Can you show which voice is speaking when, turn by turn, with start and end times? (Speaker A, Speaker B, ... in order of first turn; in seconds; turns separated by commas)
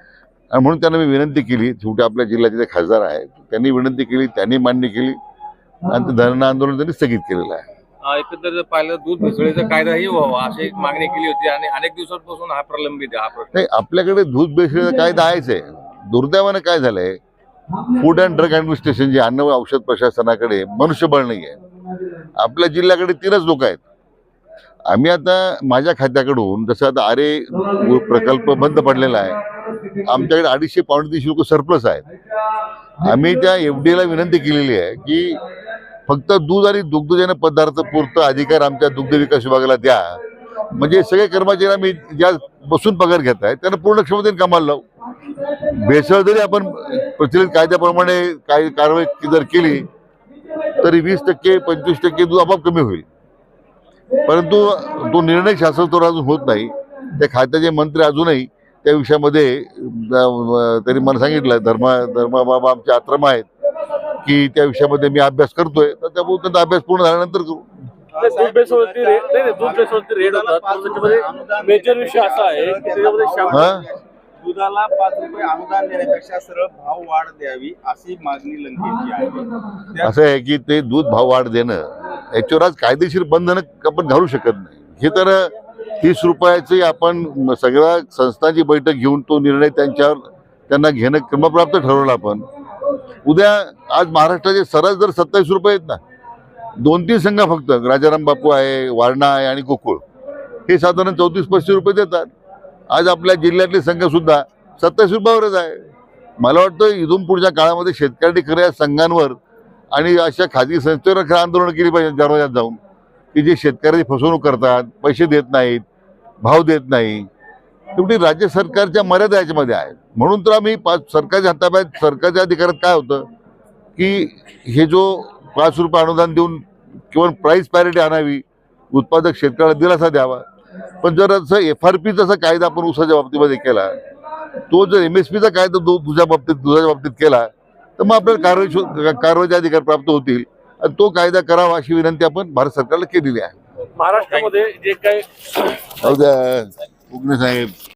Speaker A: 0.5-5.2, Speaker A: 5.9-7.6, Speaker B: 8.0-13.5, Speaker A: 13.5-17.2, Speaker A: 18.0-21.6, Speaker A: 22.4-23.8, Speaker A: 24.9-29.4, Speaker A: 30.0-32.1, Speaker A: 33.0-35.4, Speaker A: 36.1-40.2, Speaker A: 40.7-44.8, Speaker A: 45.7-49.9, Speaker A: 50.8-53.1, Speaker A: 54.3-63.5, Speaker A: 64.2-67.7, Speaker C: 68.1-80.1, Speaker D: 68.2-73.7, Speaker A: 73.5-73.8, Speaker A: 80.0-92.5, Speaker A: 93.3-96.0, Speaker A: 96.8-100.0, Speaker A: 100.7-102.3, Speaker A: 102.9-105.8, Speaker A: 106.4-109.4, Speaker A: 109.9-112.8, Speaker A: 113.3-115.8, Speaker A: 116.4-117.3, Speaker A: 118.0-123.3, Speaker A: 124.0-130.4, Speaker A: 131.0-133.9, Speaker A: 134.7-143.5, Speaker D: 144.0-145.3, Speaker B: 144.1-144.7, Speaker A: 146.0-147.7